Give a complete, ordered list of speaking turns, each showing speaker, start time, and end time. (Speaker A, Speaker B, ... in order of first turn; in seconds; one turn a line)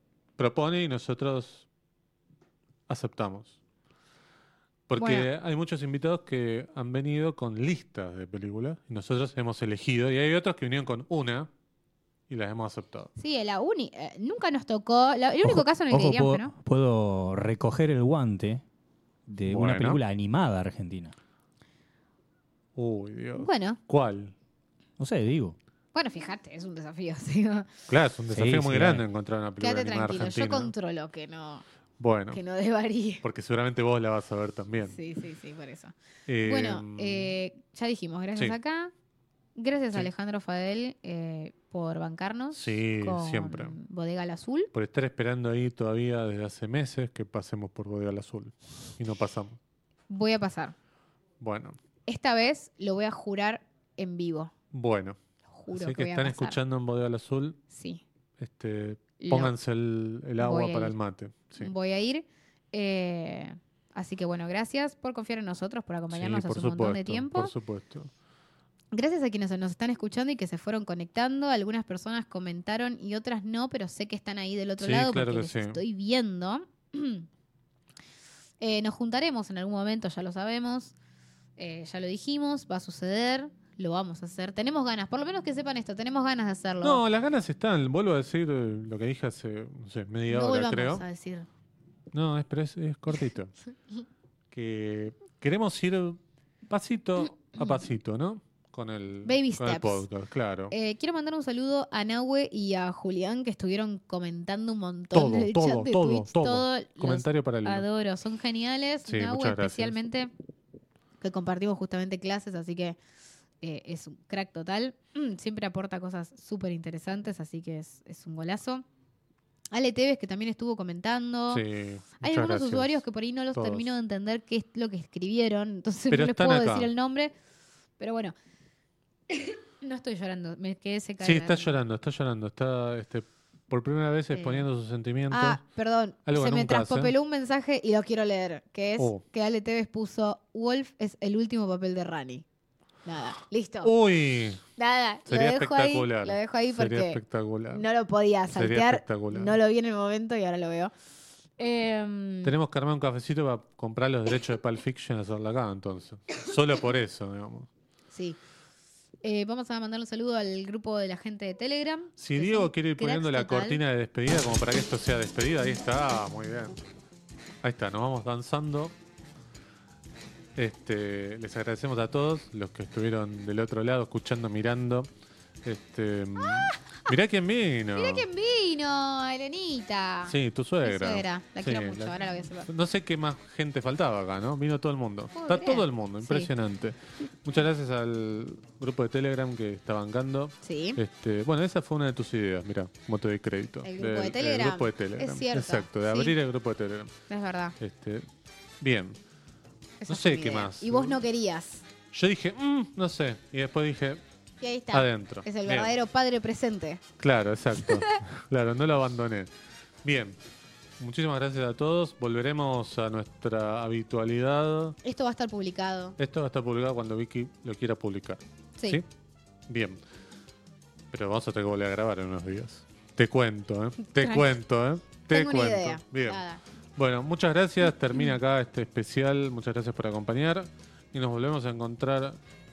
Speaker A: 0.4-1.7
Speaker A: 2.9-3.6
Speaker A: 4.9-11.5
Speaker B: 5.0-5.3
Speaker A: 12.3-13.1
Speaker B: 13.2-16.5
Speaker C: 15.4-18.6
Speaker C: 19.3-21.1
Speaker A: 19.5-20.0
Speaker A: 22.8-24.3
Speaker B: 23.4-23.8
Speaker C: 25.0-25.6
Speaker B: 25.9-27.7
Speaker A: 27.9-30.7
Speaker C: 28.3-29.0
Speaker B: 29.6-31.6
Speaker A: 32.0-32.4
Speaker B: 32.3-33.2
Speaker A: 33.2-35.0
Speaker B: 34.9-38.9
Speaker A: 36.3-37.3
Speaker B: 39.5-44.7
Speaker A: 42.5-43.8
Speaker A: 44.7-49.6
Speaker B: 50.1-50.8
Speaker A: 51.4-51.8
Speaker B: 52.1-54.5
Speaker A: 54.7-55.2
Speaker B: 55.5-56.6
Speaker A: 55.7-57.6
Speaker B: 57.7-58.0
Speaker A: 58.4-61.7
Speaker B: 59.2-59.5
Speaker B: 60.4-61.0
Speaker B: 61.6-67.5
Speaker A: 66.1-68.1
Speaker B: 68.9-77.3
Speaker A: 74.8-75.8
Speaker B: 78.6-81.0
Speaker B: 81.6-87.0
Speaker A: 86.8-91.0
Speaker B: 90.3-91.5
Speaker A: 92.1-93.5
Speaker A: 94.5-100.7
Speaker B: 99.2-100.1
Speaker B: 100.7-110.3
Speaker A: 105.1-107.9
Speaker A: 109.1-110.0
Speaker B: 111.2-113.0
Speaker B: 113.6-118.8
Speaker B: 119.7-121.6
Speaker A: 121.5-123.0
Speaker B: 122.2-127.3
Speaker A: 123.5-123.9
Speaker A: 126.1-126.9
Speaker B: 128.0-128.3
Speaker B: 129.3-131.8
Speaker A: 131.2-135.6
Speaker B: 134.3-134.7
Speaker B: 135.3-142.4
Speaker A: 136.3-137.1
Speaker A: 139.0-139.2
Speaker B: 143.0-143.9
Speaker A: 143.8-144.6
Speaker B: 144.8-150.9
Speaker A: 145.3-147.9
Speaker A: 148.5-149.6
Speaker B: 151.6-152.5
Speaker A: 152.4-157.7
Speaker B: 158.1-158.4
Speaker B: 159.2-163.8
Speaker A: 162.2-166.8
Speaker A: 167.6-168.9
Speaker A: 170.6-175.1
Speaker A: 175.7-178.3
Speaker B: 176.4-177.2
Speaker B: 177.9-182.7
Speaker A: 180.3-197.2
Speaker B: 185.3-186.5
Speaker B: 190.6-191.0
Speaker B: 193.8-196.3
Speaker B: 197.3-197.8
Speaker A: 197.8-198.3
Speaker A: 198.8-199.2
Speaker B: 200.0-201.8
Speaker A: 200.1-201.2
Speaker A: 202.1-204.2
Speaker B: 204.6-207.0
Speaker A: 204.9-205.9
Speaker A: 207.2-209.5
Speaker B: 207.8-208.2
Speaker A: 210.0-210.4
Speaker A: 211.0-215.0
Speaker B: 215.0-216.2
Speaker A: 216.2-219.1
Speaker A: 219.7-220.0
Speaker A: 221.1-226.4
Speaker B: 224.2-224.6
Speaker B: 225.3-226.6
Speaker A: 227.0-232.4